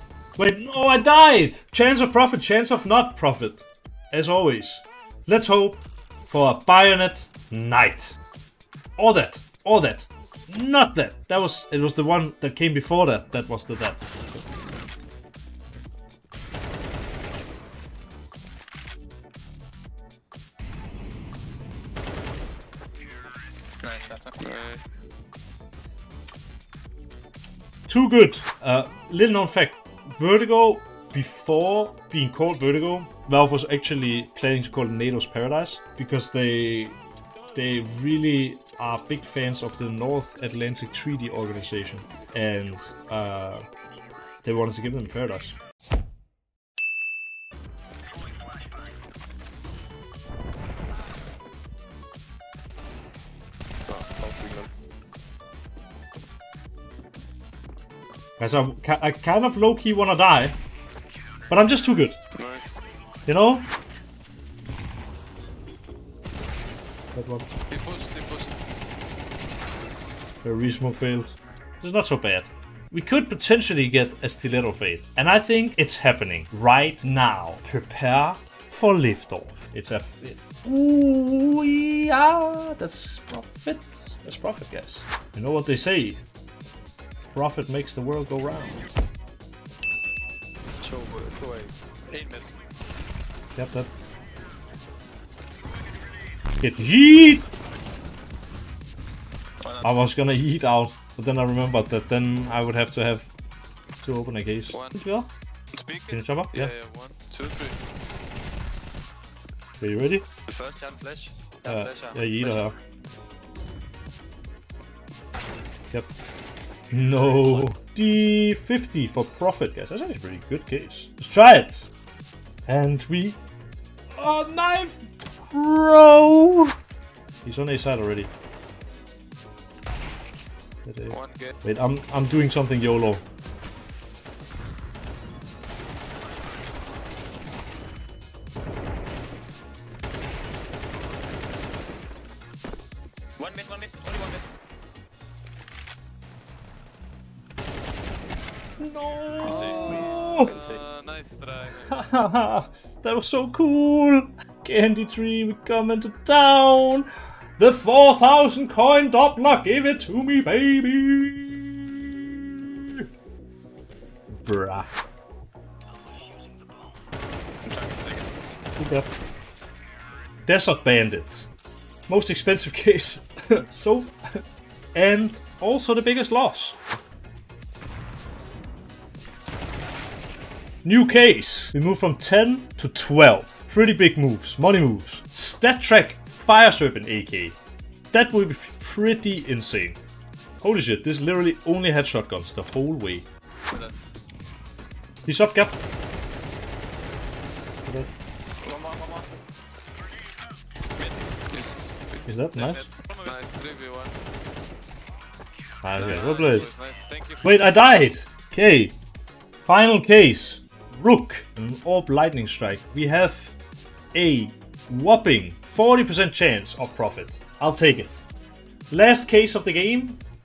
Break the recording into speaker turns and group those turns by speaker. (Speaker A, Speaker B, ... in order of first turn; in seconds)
Speaker A: 0.4-8.2, 9.0-14.4, 27.9-37.0, 37.5-43.7, 44.4-45.5, 58.4-60.5, 61.5-62.2, 63.2-63.6, 67.1-67.5, 70.4-86.2, 87.3-88.8, 93.5-93.9, 96.6-97.5, 99.8-103.3, 104.0-105.3, 106.1-106.7, 109.8-110.2, 111.6-112.8, 116.9-121.9, 122.7-123.4, 124.1-126.7, 127.4-128.3, 130.8-133.2, 148.8-150.5, 151.8-161.7, 164.3-164.9, 168.8-169.1, 170.4-171.5, 172.1-174.1, 174.9-176.8, 180.8-187.6, 188.1-190.0, 190.6-193.2, 195.2-195.8, 197.8-198.1, 202.2-202.9, 205.8-206.8, 207.4-208.9, 209.6-213.5, 214.1-218.2, 218.9-220.2
Speaker B: 23.8-24.6, 143.4-144.4, 149.5-150.8
Speaker C: 24.4-24.8, 53.9-54.7, 62.3-62.8, 67.7-68.5, 92.1-92.5, 99.6-100.0, 104.7-105.0, 105.7-107.8, 110.5-112.7, 131.1-131.5, 149.4-152.1, 167.6-168.3, 193.7-194.0, 198.6-199.3, 201.0-204.1, 205.9-207.8